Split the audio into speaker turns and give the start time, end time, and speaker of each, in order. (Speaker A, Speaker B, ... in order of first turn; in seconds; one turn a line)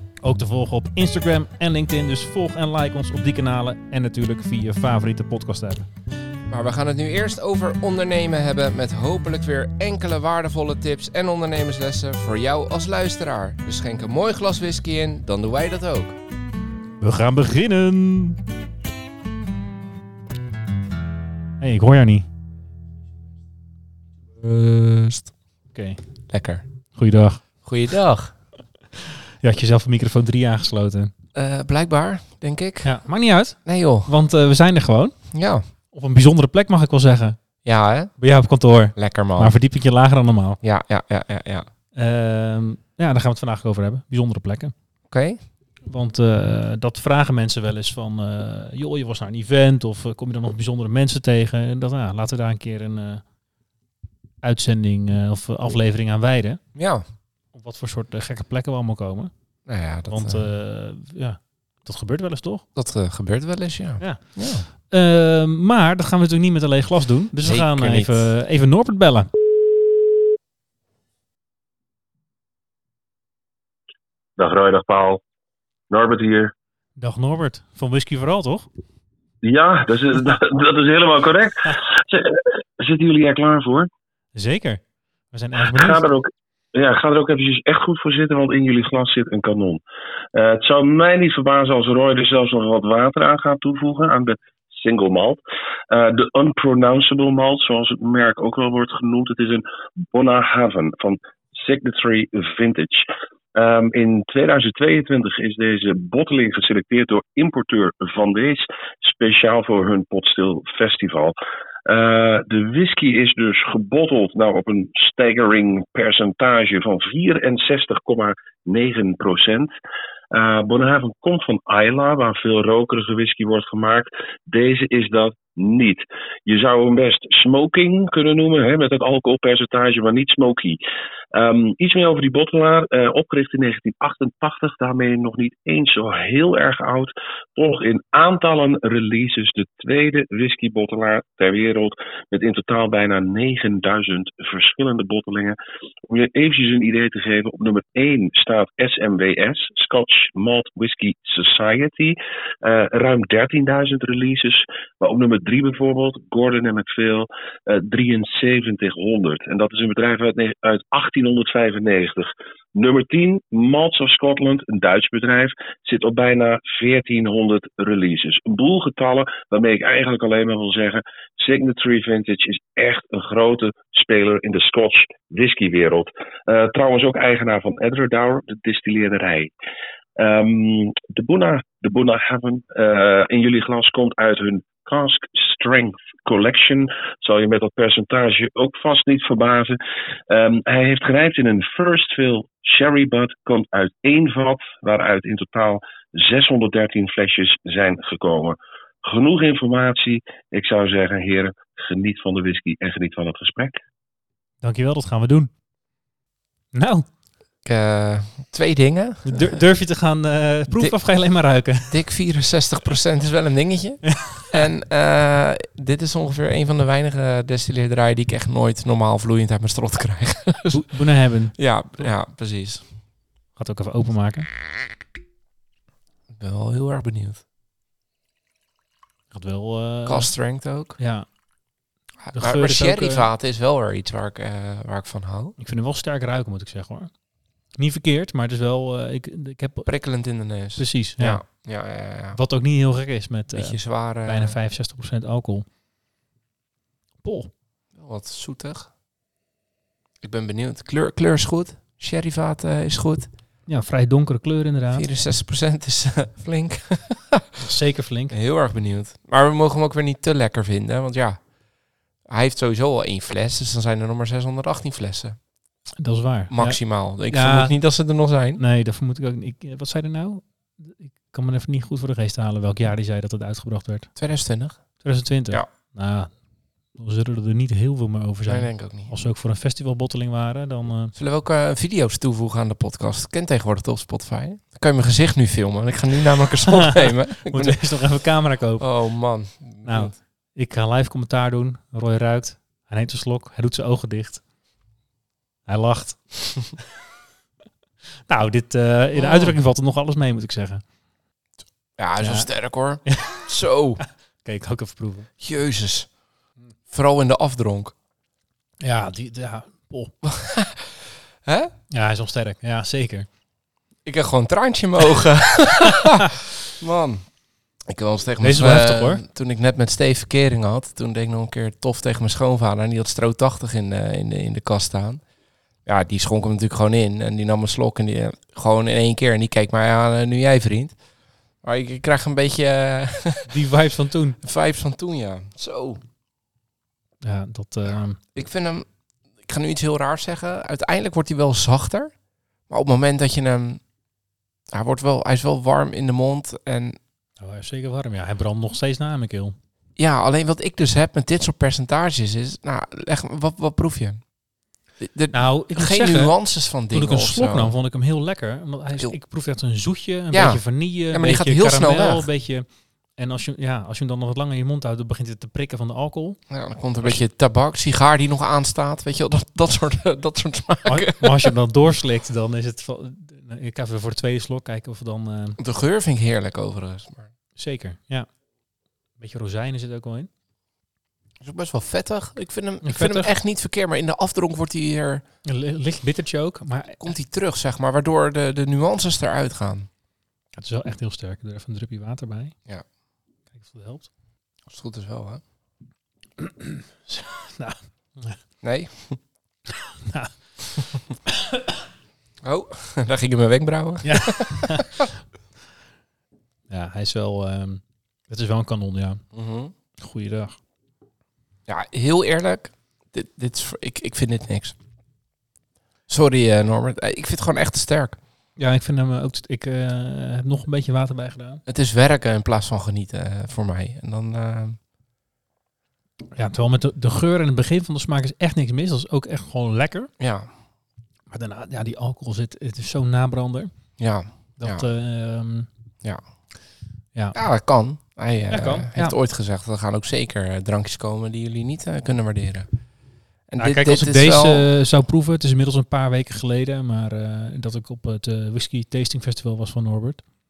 Speaker A: 0.2-5.8
Speaker B: 6.5-16.2
Speaker A: 17.0-18.4
Speaker A: 21.6-22.3
Speaker B: 24.4-25.3
Speaker A: 25.7-26.0
Speaker B: 26.3-26.6
Speaker A: 26.9-27.4
Speaker B: 27.6-28.3
Speaker A: 29.4-31.1
Speaker B: 31.3-32.9
Speaker A: 32.8-35.1
Speaker B: 33.6-34.1
Speaker B: 35.3-35.6
Speaker A: 35.9-37.4
Speaker B: 37.6-38.1
Speaker A: 38.2-40.6
Speaker B: 39.0-39.5
Speaker B: 40.6-41.6
Speaker A: 41.9-44.7
Speaker B: 45.1-45.4
Speaker A: 45.9-53.2
Speaker A: 54.4-56.6
Speaker B: 56.7-57.0
Speaker A: 57.5-59.3
Speaker B: 59.7-60.4
Speaker A: 60.1-62.6
Speaker B: 62.8-64.7
Speaker A: 64.0-69.3
Speaker B: 67.4-68.3
Speaker C: 74.4-75.2
Speaker C: 75.9-76.5
Speaker A: 77.0-78.7
Speaker C: 79.4-83.9
Speaker A: 84.3-84.8
Speaker A: 85.3-86.0
Speaker C: 85.6-89.8
Speaker C: 90.3-95.4
Speaker C: 95.9-111.3
Speaker C: 111.9-119.7
Speaker C: 120.3-130.8
Speaker C: 131.3-179.5
Speaker C: 180.2-189.8
Speaker C: 190.3-203.8
Speaker A: 204.6-205.5
Speaker A: 206.7-207.1
Speaker B: 207.6-209.6
Speaker A: 209.2-211.9
Speaker B: 211.9-220.9
Speaker A: 214.0-214.5
Speaker A: 220.7-221.5
Speaker B: 221.5-222.8
Speaker A: 223.6-224.5
Speaker B: 226.3-227.4
Speaker A: 229.3-230.3
Speaker B: 230.1-231.0
Speaker A: 231.0-231.2
Speaker B: 232.2-235.5
Speaker A: 232.3-233.3
Speaker A: 235.6-237.1
Speaker A: 237.8-239.9
Speaker B: 239.8-242.4
Speaker A: 240.8-241.4
Speaker A: 242.3-245.7
Speaker B: 243.5-244.5
Speaker A: 247.2-247.5
Speaker B: 247.9-248.9
Speaker B: 250.2-253.3
Speaker A: 253.7-255.1
Speaker B: 254.9-257.6
Speaker A: 257.6-258.3
Speaker B: 258.3-261.4
Speaker B: 262.3-265.4
Speaker A: 266.0-267.7
Speaker B: 266.5-268.6
Speaker A: 268.6-274.1
Speaker B: 274.2-274.8
Speaker A: 275.0-276.3
Speaker A: 276.9-281.1
Speaker B: 278.5-279.1
Speaker B: 281.1-287.8
Speaker A: 286.6-288.9
Speaker B: 288.8-290.1
Speaker A: 289.8-294.4
Speaker A: 295.7-296.3
Speaker A: 298.3-300.8
Speaker B: 299.1-299.6
Speaker B: 302.0-304.0
Speaker A: 302.2-302.5
Speaker A: 303.1-303.4
Speaker A: 304.4-305.3
Speaker B: 305.4-306.1
Speaker B: 306.9-307.9
Speaker A: 308.8-310.1
Speaker B: 310.2-310.8
Speaker B: 311.4-311.7
Speaker A: 311.9-313.3
Speaker B: 314.0-317.2
Speaker B: 317.9-325.2
Speaker A: 318.4-319.2
Speaker B: 325.9-330.9
Speaker B: 331.6-333.5
Speaker A: 333.5-334.4
Speaker B: 334.4-336.0
Speaker A: 337.2-338.2
Speaker B: 338.3-338.9
Speaker B: 339.4-342.1
Speaker B: 342.7-343.8
Speaker B: 344.7-347.0
Speaker A: 347.4-349.6
Speaker B: 350.0-354.2
Speaker B: 355.0-357.7
Speaker A: 355.3-356.3
Speaker A: 356.9-362.6
Speaker B: 360.3-362.3
Speaker A: 363.2-366.4
Speaker B: 366.5-371.5
Speaker A: 370.9-375.6
Speaker B: 375.6-377.3
Speaker A: 377.6-378.3
Speaker A: 379.2-380.3
Speaker B: 381.4-385.2
Speaker A: 382.8-383.3
Speaker A: 385.4-387.1
Speaker B: 387.0-389.9
Speaker A: 390.6-392.6
Speaker A: 393.5-394.1
Speaker B: 394.7-395.4
Speaker A: 396.4-398.4
Speaker B: 398.6-399.2
Speaker A: 400.1-400.3
Speaker B: 402.4-404.9
Speaker A: 404.0-405.0
Speaker A: 406.7-409.2
Speaker B: 409.3-409.7
Speaker A: 410.0-410.6
Speaker B: 411.7-414.7
Speaker B: 416.1-418.2
Speaker A: 418.6-421.6
Speaker B: 421.7-424.8
Speaker A: 426.4-430.1
Speaker B: 430.2-430.5
Speaker A: 431.3-433.7
Speaker B: 434.0-434.8
Speaker A: 434.6-435.7
Speaker B: 437.3-442.7
Speaker A: 438.5-439.1
Speaker B: 443.5-444.7
Speaker A: 443.6-450.2